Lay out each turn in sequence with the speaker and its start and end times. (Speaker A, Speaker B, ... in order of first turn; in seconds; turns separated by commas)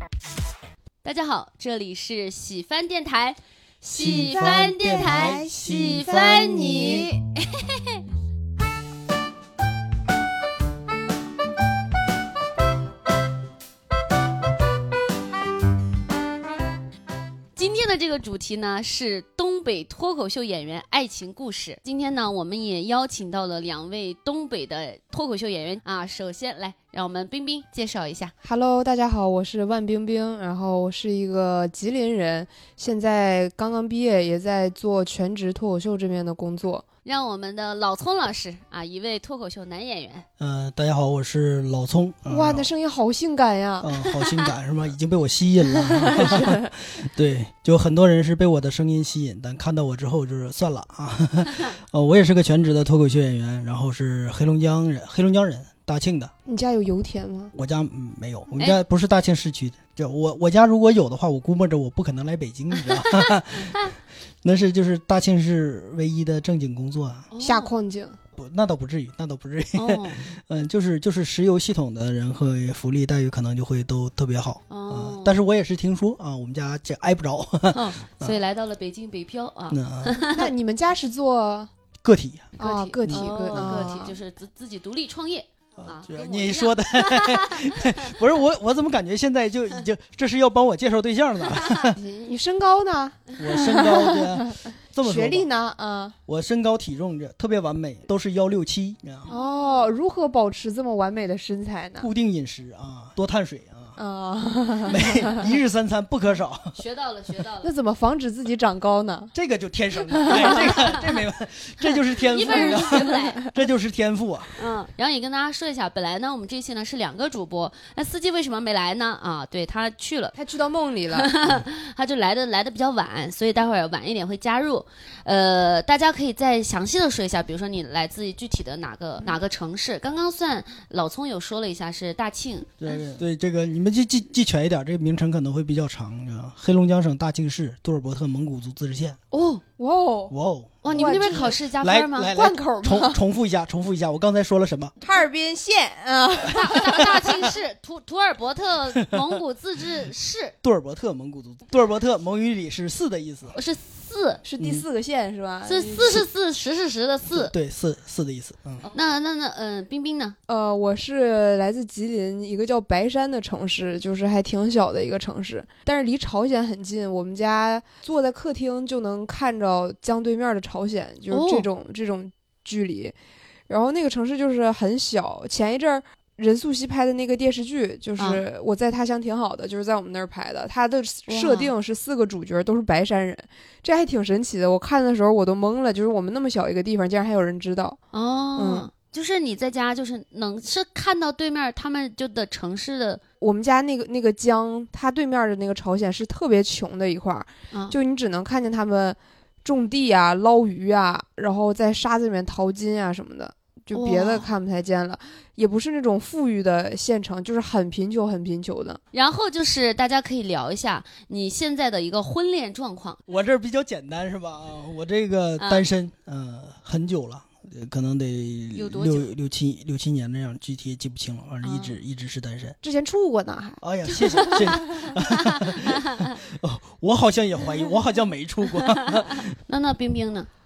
Speaker A: 1.0-8.0, Speaker B: 3.9-7.0, Speaker C: 4.0-4.5, Speaker C: 5.0-5.4, Speaker A: 17.6-28.3, Speaker C: 28.4-36.8, Speaker A: 37.0-40.2, Speaker B: 40.4-42.7, Speaker C: 42.3-43.9, Speaker B: 43.8-56.3, Speaker A: 44.2-44.5, Speaker C: 45.7-46.7, Speaker C: 56.5-57.5, Speaker B: 57.5-67.3, Speaker A: 63.0-63.9, Speaker A: 67.3-67.7, Speaker C: 67.4-68.2, Speaker B: 68.3-78.4, Speaker A: 69.7-70.3, Speaker A: 74.7-75.4, Speaker A: 77.7-80.4, Speaker B: 79.7-80.2, Speaker C: 80.3-81.7, Speaker B: 82.0-82.5, Speaker C: 82.6-84.1, Speaker A: 82.6-87.9, Speaker B: 83.0-84.0, Speaker B: 85.8-92.0, Speaker C: 91.9-96.2, Speaker B: 93.4-95.5, Speaker B: 96.3-99.3, Speaker A: 99.3-99.7, Speaker C: 99.3-102.1, Speaker B: 102.0-104.0, Speaker C: 104.0-105.4, Speaker B: 104.9-106.8, Speaker A: 106.7-107.7, Speaker C: 107.6-109.3, Speaker B: 109.3-114.5, Speaker C: 110.1-110.6, Speaker A: 110.3-111.0, Speaker A: 112.3-113.4, Speaker C: 112.5-113.5, Speaker A: 114.6-120.3, Speaker C: 120.3-121.3, Speaker A: 121.2-132.7, Speaker B: 132.8-139.2, Speaker A: 139.3-139.6, Speaker C: 139.8-140.3, Speaker B: 140.3-144.9, Speaker A: 140.8-142.3, Speaker C: 140.9-141.6, Speaker C: 142.3-143.2, Speaker C: 145.0-147.2, Speaker A: 146.5-150.5, Speaker B: 149.0-149.4, Speaker B: 150.6-153.5, Speaker A: 153.5-154.4, Speaker C: 154.4-156.2, Speaker B: 154.6-154.8, Speaker A: 155.7-157.5, Speaker B: 157.3-158.8, Speaker A: 158.9-160.3, Speaker C: 160.5-173.1, Speaker A: 171.3-171.7, Speaker C: 173.7-188.0, Speaker A: 181.3-181.7, Speaker A: 188.1-193.2, Speaker C: 188.6-188.9, Speaker C: 193.4-209.0, Speaker A: 203.9-204.5, Speaker A: 209.1-213.2, Speaker B: 213.3-222.8, Speaker A: 215.6-215.9, Speaker A: 218.7-219.3, Speaker A: 221.6-221.9, Speaker C: 222.8-223.8, Speaker B: 223.8-229.5, Speaker C: 224.4-225.1, Speaker A: 224.4-224.8, Speaker A: 229.7-230.5